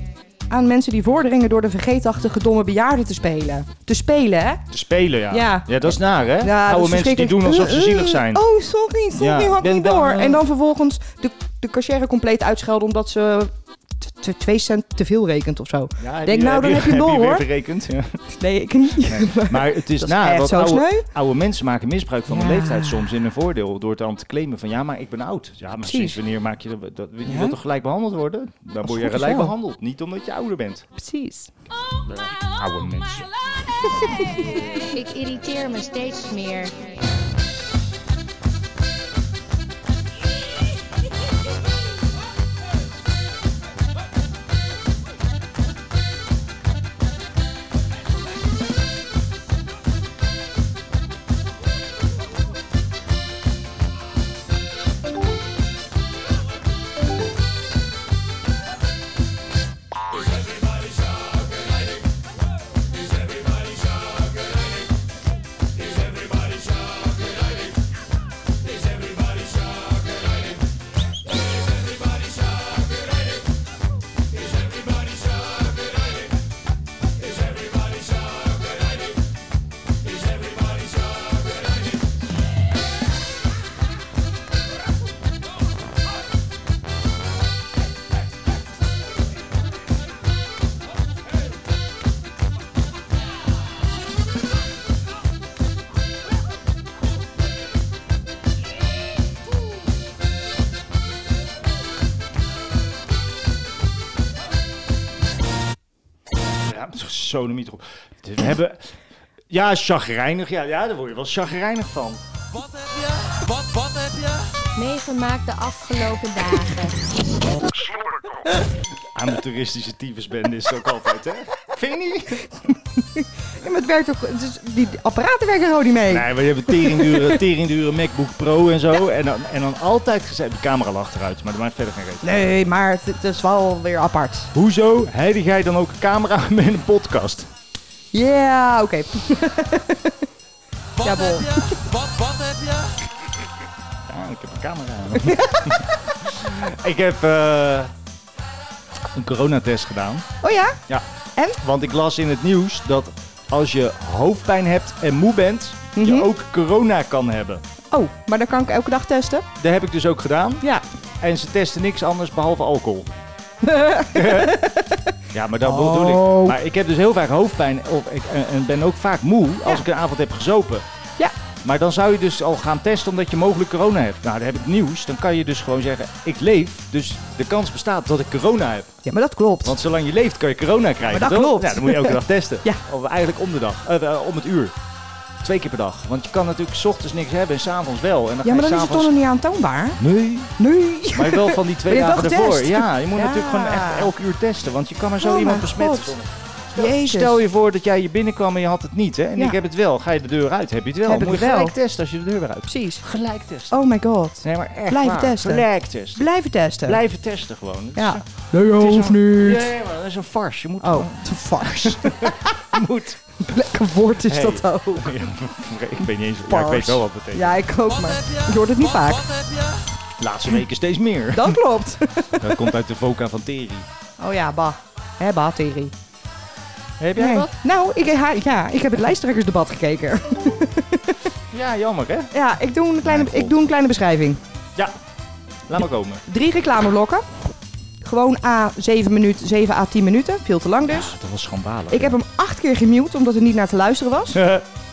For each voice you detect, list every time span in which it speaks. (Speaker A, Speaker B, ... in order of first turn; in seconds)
Speaker A: 0.5-4.6, 5.3-17.5, 18.3-21.1, 22.3-23.1, 25.8-26.2, 27.3-27.6, 28.8-29.5, 31.0-31.5, 33.8-34.4, 123.2-127.4, 132.2-134.5, 138.1-140.2, 141.0-141.8, 145.2-145.8, 150.4-150.8, 155.9-156.3, 157.9-159.5, 163.6-164.9, 165.6-166.6, 179.1-179.8, 181.1-182.8, 188.4-190.0, 190.6-194.1, 195.2-196.2, 196.8-197.4, 201.1-201.8, 202.7-203.0, 203.7-207.0, 207.9-209.7, 210.8-212.7, 213.4-215.2, 216.5-219.4, 221.3-222.7, 224.2-225.9, 227.2-231.2, 232.3-234.4, 236.3-237.2, 238.0-241.1, 241.9-244.4
Speaker B: 4.7-8.4, 9.2-10.4, 16.0-18.2, 19.0-30.9, 32.1-34.6, 106.6-108.9, 109.5-112.2, 119.1-122.5, 126.1-132.5, 134.5-137.5, 144.1-147.9, 149.1-150.3, 151.6-157.6, 159.6-160.7, 161.2-163.1, 164.1-164.6, 165.3-170.8, 171.6-179.0, 179.6-184.8, 185.4-189.1, 190.0-190.6, 191.1-203.8, 204.4-206.3, 206.8-213.2, 214.2-217.6, 220.2-221.6, 222.3-223.9, 227.0-227.5, 231.5-232.3, 233.0-233.7, 235.7-236.2, 240.9-242.2, 244.3-244.7
Speaker C: 34.8-36.7, 112.7-117.0, 141.0-142.9, 219.3-219.8